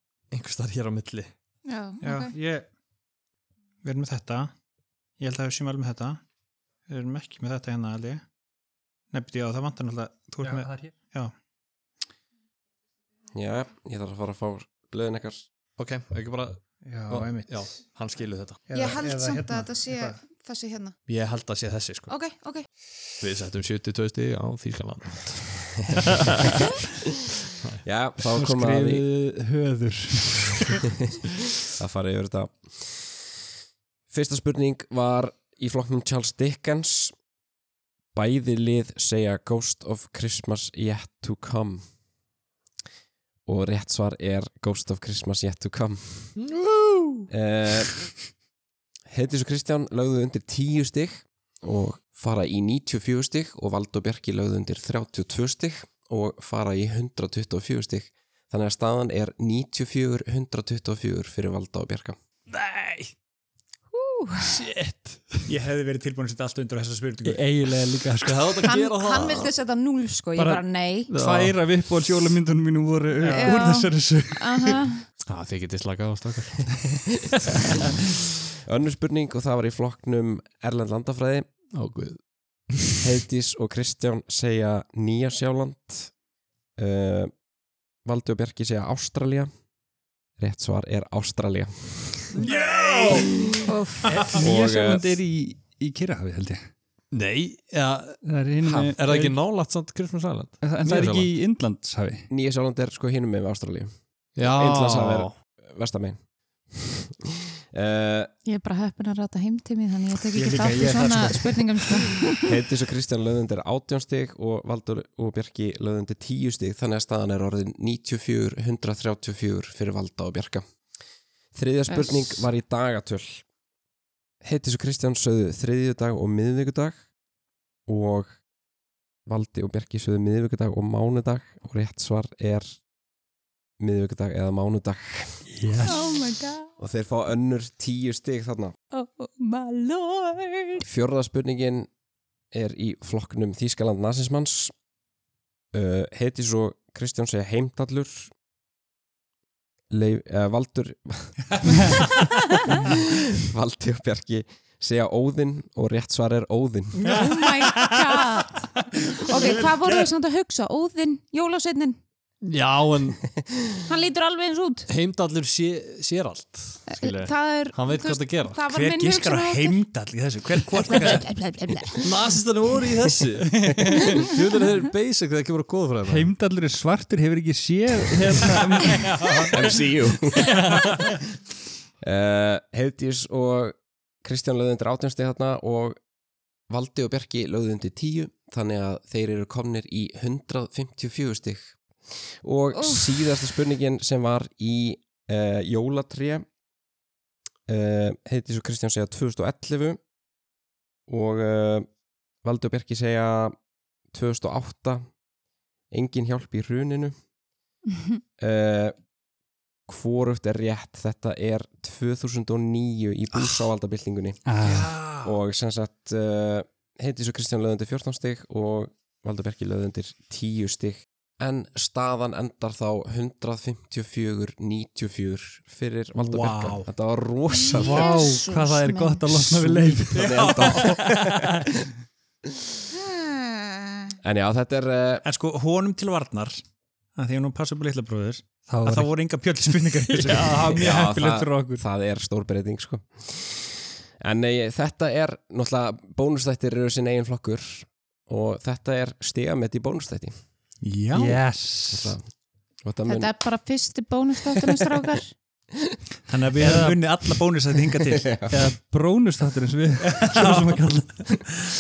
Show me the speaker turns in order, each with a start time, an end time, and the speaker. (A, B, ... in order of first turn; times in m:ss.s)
0:00.3-0:01.3 A
0:01.6-0:02.3 B
0:02.0-0:02.7 C
0:03.8-0:04.5 C
0:05.2-0:06.2 C
0:06.9-0:08.2 C
0:09.1-0:11.3 C
0:10.4-0:10.9 D
0:13.3-0:15.4 E
0:15.8-0:18.6 A
0:16.8-0:17.8 C
0:18.7-0:20.2 C
0:18.7-0:21.0 B
0:21.1-0:22.1 A
0:22.1-0:22.7 B
0:23.2-0:26.3 A
0:27.8-0:29.0 E
0:28.3-0:30.9 D
0:31.7-0:33.4 E
0:34.1-0:37.2 E
0:38.1-0:41.8 E
0:43.4-0:46.4 E
0:46.4-0:47.3 A
0:47.3-0:48.1 E
0:49.1-1:02.2 E
1:02.5-1:03.1 A
1:03.9-1:04.6 B
1:04.4-1:05.4 A
1:05.5-1:07.5 C
1:07.2-1:08.7 D
1:08.2-1:09.5 A
1:08.6-1:11.1 B
1:10.4-1:14.8 D
1:11.1-1:11.5 A
1:13.2-1:13.6 C
1:13.3-1:15.1 B
1:15.3-1:16.7 A
1:18.6-1:21.4 E
1:21.7-1:23.0 A
1:23.0-1:26.1 E
1:26.8-1:27.3 E
1:28.0-1:29.5 E
1:30.4-1:32.4 E
1:32.4-1:33.5 C
1:32.4-1:33.3 A
1:33.6-1:34.1 B
1:34.0-1:36.6 D
1:34.4-1:35.2 E
1:37.1-1:41.3 A
1:38.2-1:39.4 D
1:40.6-1:42.3 D
1:42.3-1:46.2 E
1:44.4-1:45.4 A
1:46.7-1:48.3 E
1:48.4-1:52.5 B
1:50.3-1:52.1 C
1:52.4-2:00.6 E
2:01.5-2:03.4 E
2:01.9-2:02.2 B
2:04.4-2:07.0 E
2:07.9-2:08.3 E
2:09.3-2:12.8 E
2:13.8-2:15.5 E
2:15.6-2:16.0 D
2:15.8-2:16.7 B
2:16.8-2:18.7 E
2:18.9-2:20.8 B
2:20.8-2:21.9 E
2:22.5-2:24.7 E
2:25.7-2:28.3 E
2:29.9-2:31.9 E
2:32.7-2:37.2 E
2:37.1-2:38.6 B
2:39.2-2:42.0 B
2:42.4-2:43.3 A
2:43.8-2:44.9 B
2:44.9-2:48.6 A
2:46.9-2:49.8 B
2:48.6-2:51.2 C
2:50.8-2:52.2 B
2:52.0-2:56.3 A
2:53.6-2:54.1 D
2:56.1-2:59.6 D
2:59.5-3:00.6 E
3:02.0-3:06.0 E
3:06.7-3:16.4 E
3:12.8-3:13.2 B
3:17.7-3:20.0 E
3:21.1-3:21.9 E
3:22.4-3:23.6 E
3:24.1-3:25.1 E
3:25.9-3:27.1 E
3:28.4-3:28.9 E
3:29.9-3:48.1 E
3:34.4-3:34.9 D
3:34.6-3:35.4 C
3:46.2-3:46.9 C
3:47.5-3:49.3 B
3:47.7-3:51.6 D
3:50.1-3:51.0 C
3:50.1-3:51.9 E
3:52.9-3:54.1 B
3:54.2-3:55.2 E
3:55.2-3:56.6 C
3:57.2-4:00.8 C
3:58.7-3:59.1 D
4:00.2-4:01.8 D
4:00.7-4:10.3 E
4:10.8-4:11.4 C
4:11.1-4:12.2 D
4:11.9-4:12.3 E
4:12.8-4:13.3 E
4:13.1-4:15.3 B
4:16.3-4:18.4 C
4:16.6-4:17.0 D
4:18.1-4:18.6 E
4:18.5-4:21.3 D
4:20.1-4:21.4 C